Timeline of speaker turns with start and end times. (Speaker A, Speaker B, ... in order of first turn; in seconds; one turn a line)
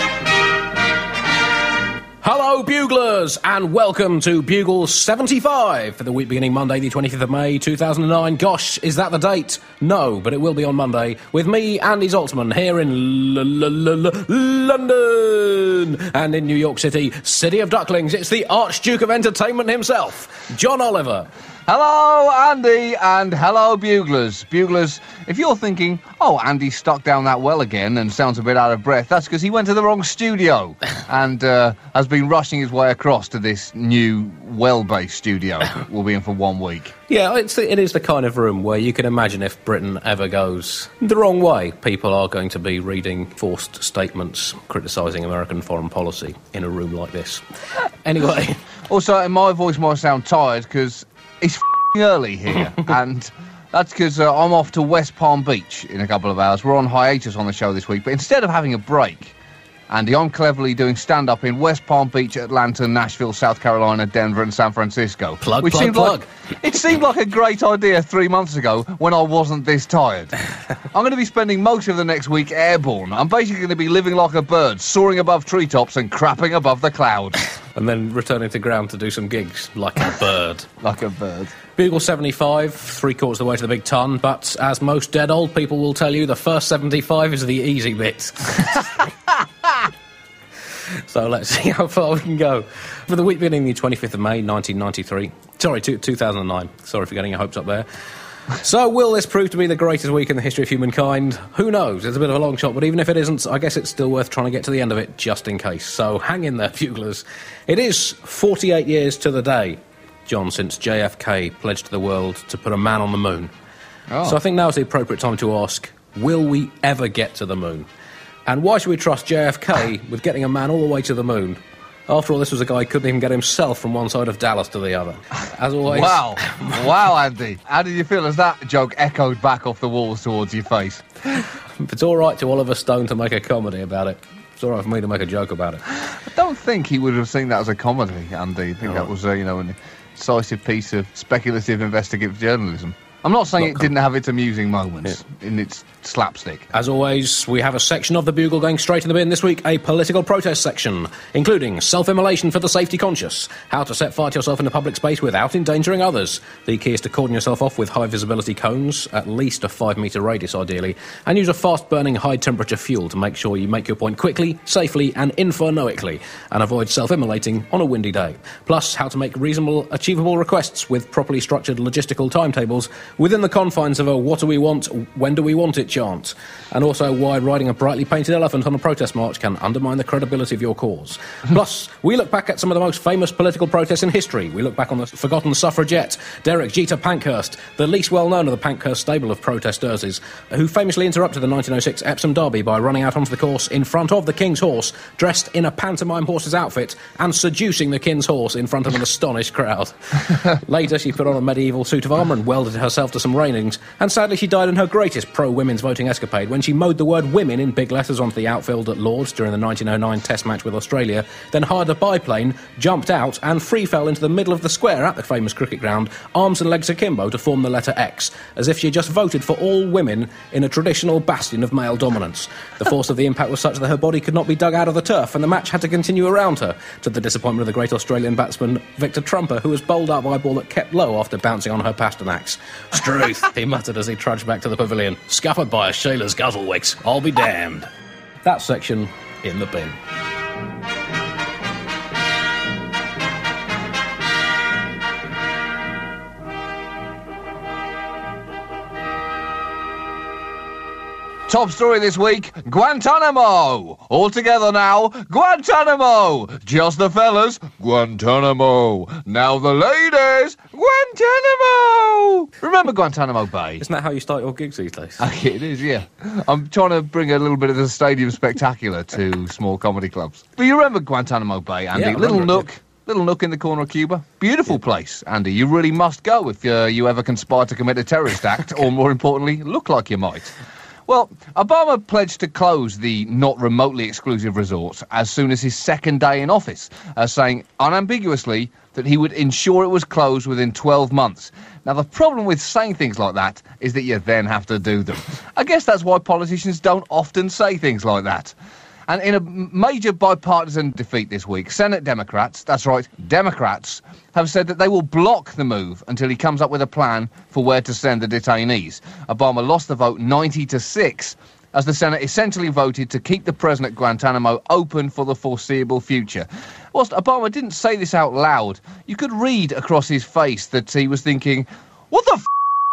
Speaker A: 2.2-21.3
Speaker B: 21.7-36.9
Speaker A: 37.1-47.4
Speaker A: 48.0-48.6
Speaker B: 48.9-59.3
Speaker B: 59.9-70.3
Speaker A: 65.4-66.3
Speaker B: 70.9-77.4
Speaker A: 77.7-80.7
Speaker B: 80.8-81.5
Speaker A: 81.8-89.0
Speaker A: 91.1-97.9
Speaker A: 98.5-113.5
Speaker B: 114.1-114.4
Speaker A: 114.2-117.9
Speaker A: 118.5-126.8
Speaker B: 125.8-131.0
Speaker A: 131.8-135.8
Speaker B: 136.1-146.7
Speaker A: 146.7-237.9
Speaker A: 238.4-240.0
Speaker B: 251.5-263.8
Speaker A: 263.8-265.2
Speaker B: 265.2-280.5
Speaker A: 271.9-272.6
Speaker B: 281.1-298.5
Speaker B: 299.1-322.5